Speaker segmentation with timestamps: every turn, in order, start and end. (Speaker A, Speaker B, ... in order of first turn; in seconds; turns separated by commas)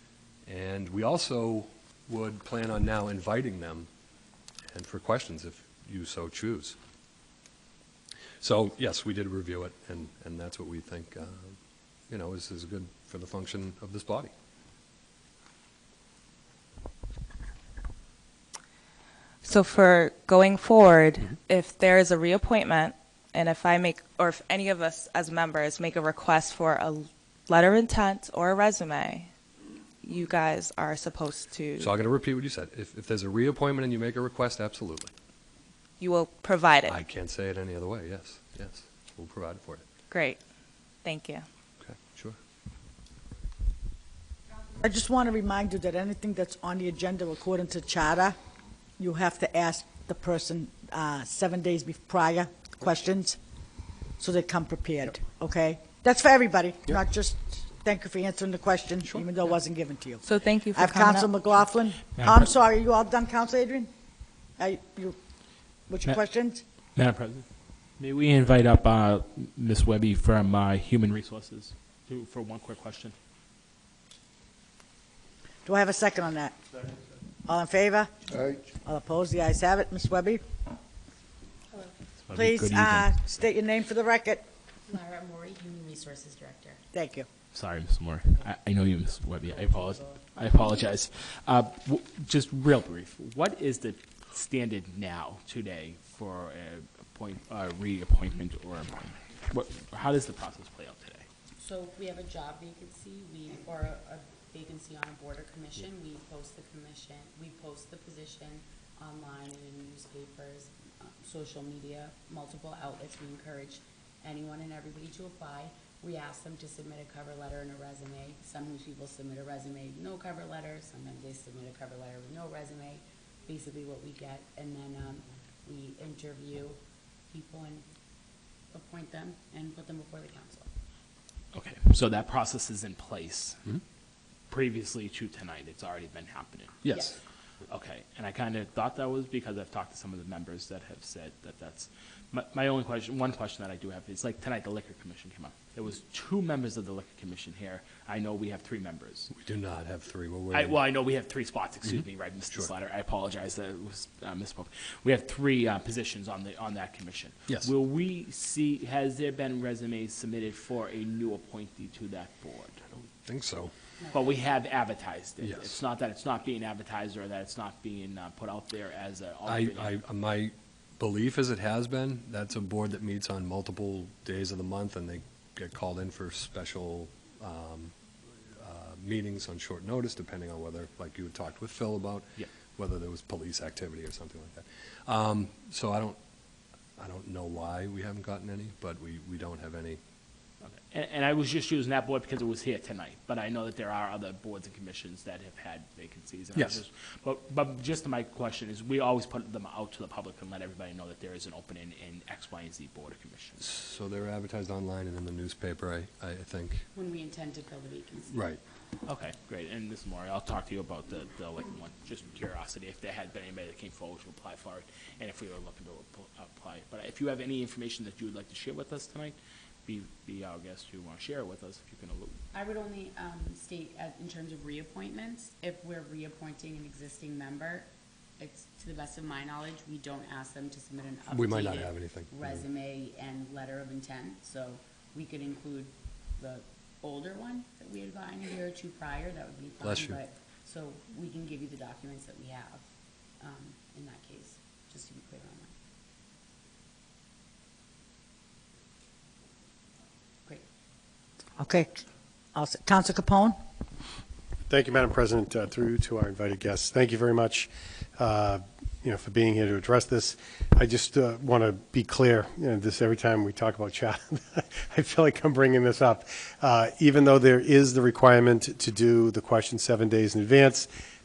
Speaker A: 0.5-3.9, Speaker A: 4.7-6.8, Speaker A: 8.4-11.6, Speaker A: 12.1-14.3, Speaker B: 19.4-29.3, Speaker B: 30.0-31.9, Speaker A: 31.8-35.1, Speaker B: 36.0-37.0, Speaker A: 36.9-39.9, Speaker B: 40.1-40.4, Speaker B: 41.0-41.5, Speaker A: 41.8-42.4, Speaker C: 44.8-48.4, Speaker C: 49.0-53.4, Speaker C: 54.2-63.9, Speaker B: 60.2-61.4, Speaker D: 62.1-62.5, Speaker C: 64.6-65.2, Speaker C: 65.9-66.6, Speaker D: 67.0-67.5, Speaker D: 68.0-73.2, Speaker C: 75.7-76.6, Speaker C: 77.5-78.1, Speaker C: 78.7-80.4, Speaker D: 82.2-83.1, Speaker C: 82.3-84.5, Speaker E: 84.9-86.8, Speaker C: 86.9-87.3, Speaker D: 87.5-101.3, Speaker E: 88.2-88.5, Speaker E: 89.4-90.5, Speaker E: 101.6-126.8, Speaker E: 127.3-127.9, Speaker E: 128.7-130.7, Speaker D: 131.5-133.6, Speaker D: 134.5-136.9, Speaker A: 136.8-137.1, Speaker E: 136.9-137.2, Speaker D: 137.7-149.3, Speaker A: 149.3-150.8, Speaker D: 150.5-162.8, Speaker A: 151.9-152.7, Speaker A: 162.9-163.7, Speaker E: 164.0-164.4, Speaker D: 164.1-169.9, Speaker A: 165.4-165.8, Speaker A: 169.5-177.9, Speaker A: 178.5-186.2, Speaker A: 187.0-190.0, Speaker D: 190.6-203.6, Speaker A: 196.6-196.8, Speaker A: 203.6-206.9, Speaker E: 206.9-208.4, Speaker A: 208.3-208.6, Speaker D: 209.1-222.4, Speaker E: 222.5-242.8, Speaker A: 231.3-232.6, Speaker A: 239.8-240.2, Speaker E: 243.4-245.7, Speaker C: 251.6-252.0, Speaker C: 252.5-253.6, Speaker F: 254.7-270.9